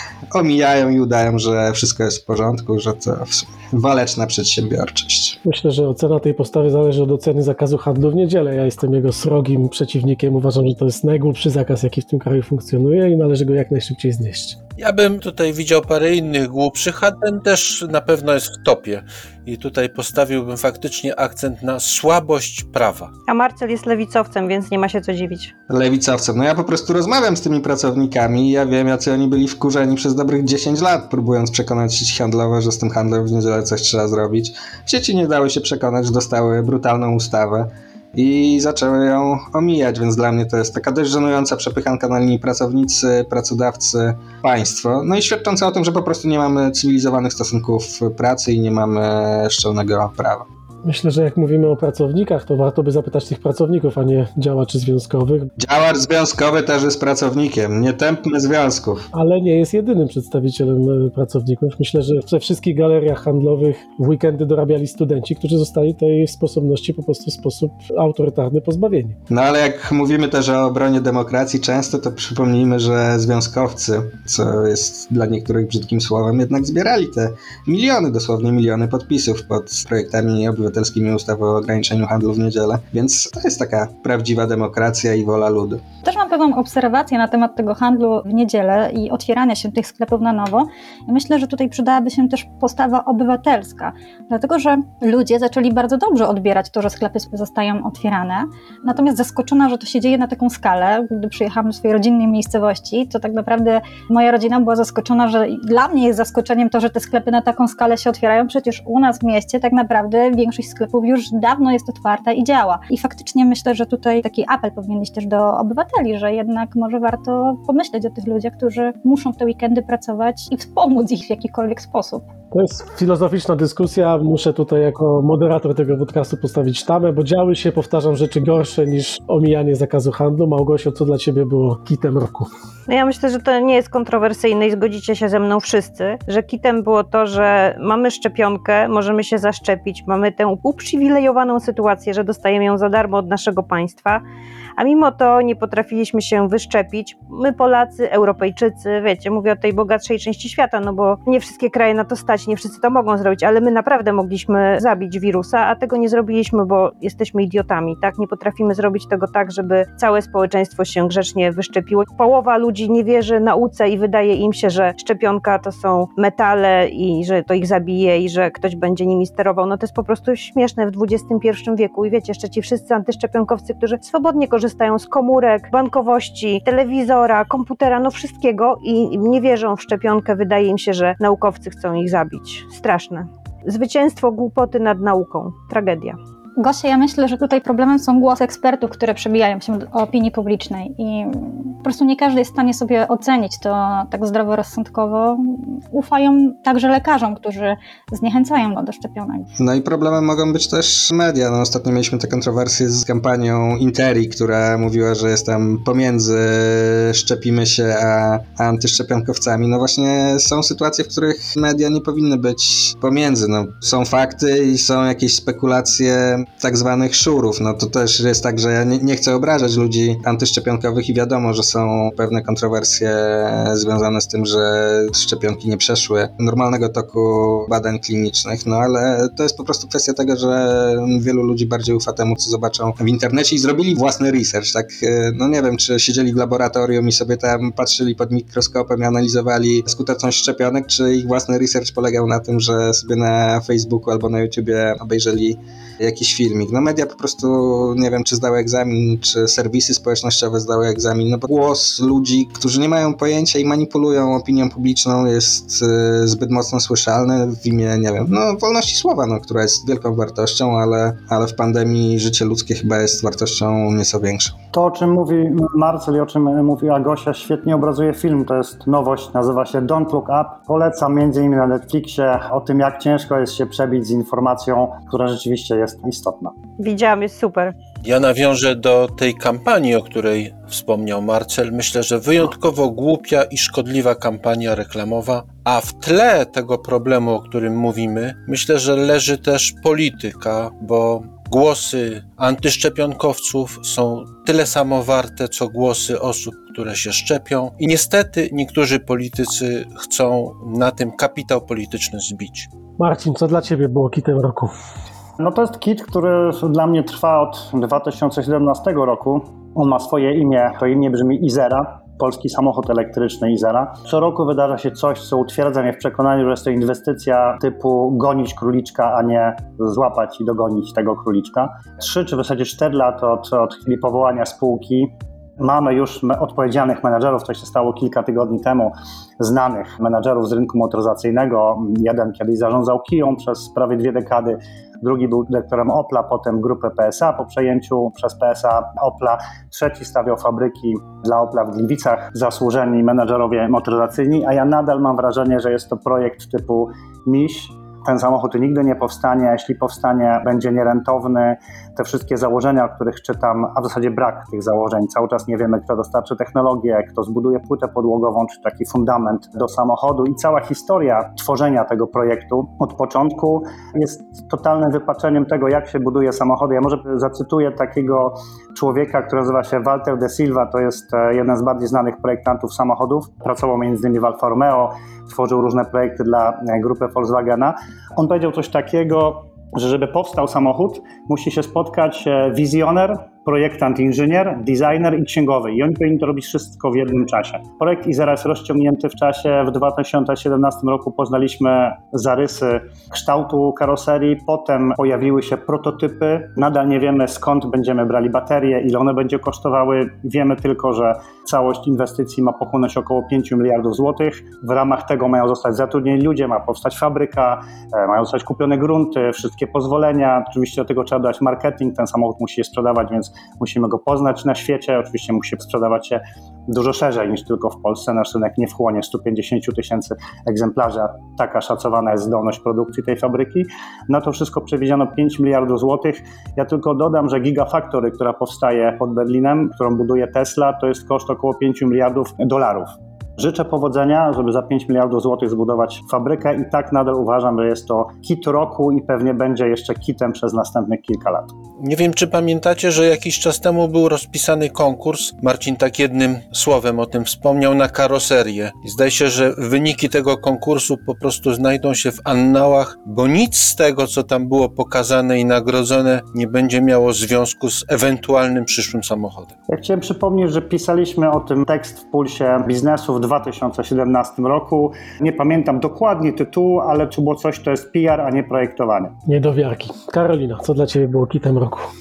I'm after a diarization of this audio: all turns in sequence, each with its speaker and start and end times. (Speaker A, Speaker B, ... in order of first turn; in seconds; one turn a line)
Speaker A: 0.3-5.4
Speaker B: 5.4-14.6
Speaker C: 14.8-23.1
Speaker D: 23.3-25.5
Speaker A: 25.7-50.5
Speaker B: 50.8-55.5
Speaker A: 55.6-59.1
Speaker B: 59.1-69.2
Speaker A: 69.3-85.8
Speaker E: 86.0-122.3
Speaker B: 122.5-132.5
Speaker D: 132.9-144.2
Speaker D: 144.8-186.2
Speaker E: 186.6-199.5
Speaker A: 199.6-264.6
Speaker F: 264.7-276.6
Speaker D: 276.8-277.8
Speaker C: 278.0-302.7
Speaker B: 303.0-304.7
Speaker F: 305.4-441.5
Speaker C: 441.8-459.5
Speaker F: 459.7-469.1
Speaker B: 469.3-471.9